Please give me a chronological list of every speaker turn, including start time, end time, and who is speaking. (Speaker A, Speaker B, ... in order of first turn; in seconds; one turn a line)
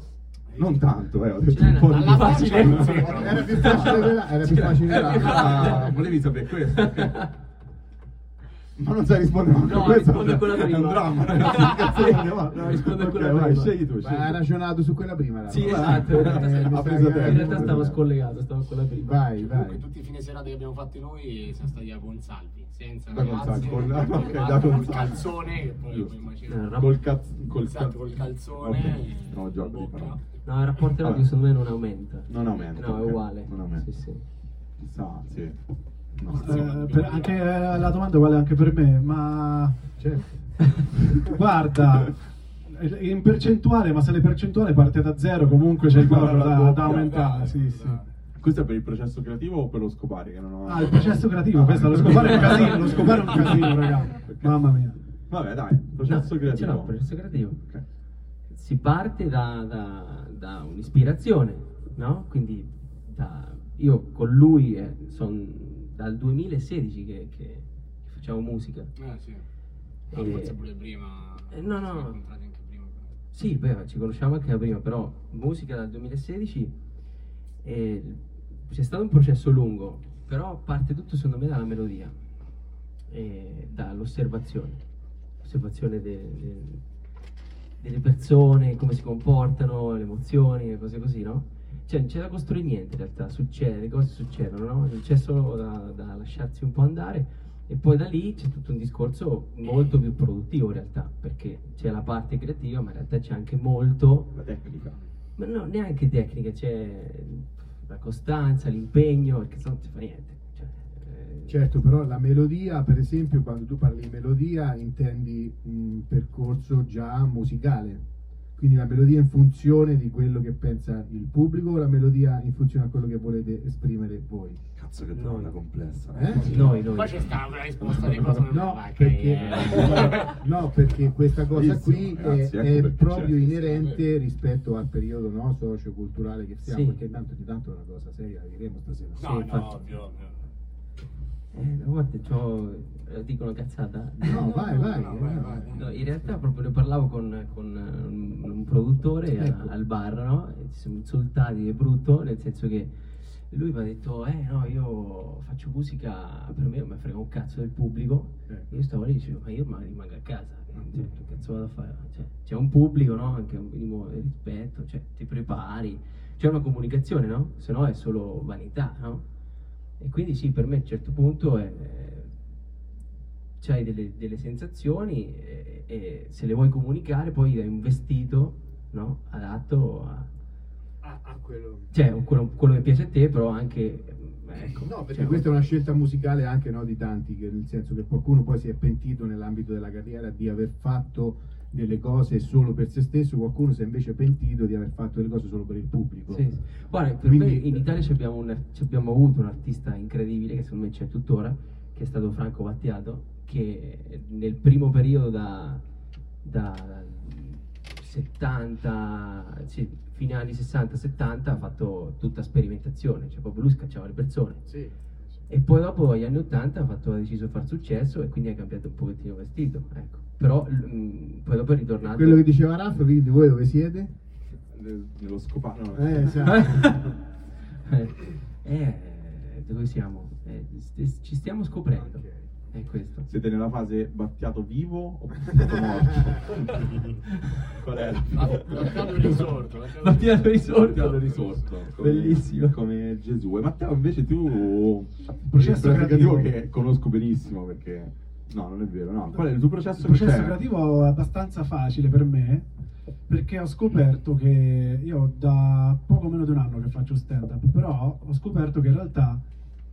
Speaker A: 0.5-0.8
Speaker B: 0.6-4.0
Speaker C: 1.5-6.1
Speaker A: 1.8-4.0
Speaker D: 3.0-5.9
Speaker B: 5.0-7.2
Speaker C: 6.6-7.3
Speaker B: 8.8-14.4
Speaker C: 9.6-13.8
Speaker D: 14.0-17.9
Speaker C: 15.5-19.2
Speaker B: 15.6-18.0
Speaker D: 19.0-19.8
Speaker A: 19.4-26.9
Speaker B: 23.1-30.2
Speaker C: 26.5-27.0
Speaker A: 27.6-30.5
Speaker C: 30.4-34.2
Speaker B: 30.9-31.3
Speaker B: 32.3-33.9
Speaker B: 34.8-36.9
Speaker A: 36.3-37.5
Speaker E: 36.4-39.9
Speaker D: 40.0-41.3
Speaker E: 41.2-48.0
Speaker B: 45.9-47.5
Speaker A: 46.9-48.1
Speaker B: 48.4-54.7
Speaker E: 50.6-55.0
Speaker B: 55.3-57.0
Speaker C: 56.1-57.6
Speaker C: 58.5-68.9
Speaker A: 69.0-69.5
Speaker C: 70.1-70.6
Speaker A: 70.1-73.2
Speaker C: 71.5-72.2
Speaker C: 73.3-76.8
Speaker C: 77.6-82.2
Speaker C: 83.1-84.8
Speaker C: 85.4-86.8
Speaker C: 87.8-104.4
Speaker B: 104.3-105.0
Speaker C: 105.4-111.6
Speaker D: 111.5-118.0
Speaker D: 118.6-124.6
Speaker B: 124.8-126.9
Speaker C: 125.1-125.6
Speaker D: 126.1-126.7
Speaker C: 126.4-127.5
Speaker A: 126.6-130.4
Speaker B: 127.8-128.4
Speaker D: 128.1-139.4
Speaker C: 130.0-130.2
Speaker B: 131.5-133.3
Speaker A: 133.3-134.2
Speaker C: 136.6-137.0
Speaker A: 139.1-140.4
Speaker C: 139.2-140.0
Speaker C: 141.5-144.6
Speaker D: 144.2-145.7
Speaker A: 144.3-146.3
Speaker C: 145.7-169.2
Speaker A: 149.3-149.7
Speaker C: 170.0-172.3
Speaker C: 173.6-180.3
Speaker D: 181.0-181.9
Speaker C: 181.9-185.5
Speaker D: 184.8-197.9
Speaker C: 196.3-205.8
Speaker C: 206.4-214.7
Speaker D: 214.7-215.0
Speaker C: 215.5-222.5
Speaker D: 222.0-224.1
Speaker B: 224.7-226.9
Speaker D: 225.9-227.1
Speaker C: 226.4-227.1
Speaker C: 227.8-233.3
Speaker D: 231.9-232.5
Speaker B: 233.3-239.5
Speaker A: 238.3-241.7
Speaker C: 238.8-241.2
Speaker B: 240.8-250.6
Speaker C: 241.9-242.8
Speaker E: 245.4-246.5
Speaker E: 249.9-252.7
Speaker E: 253.3-259.4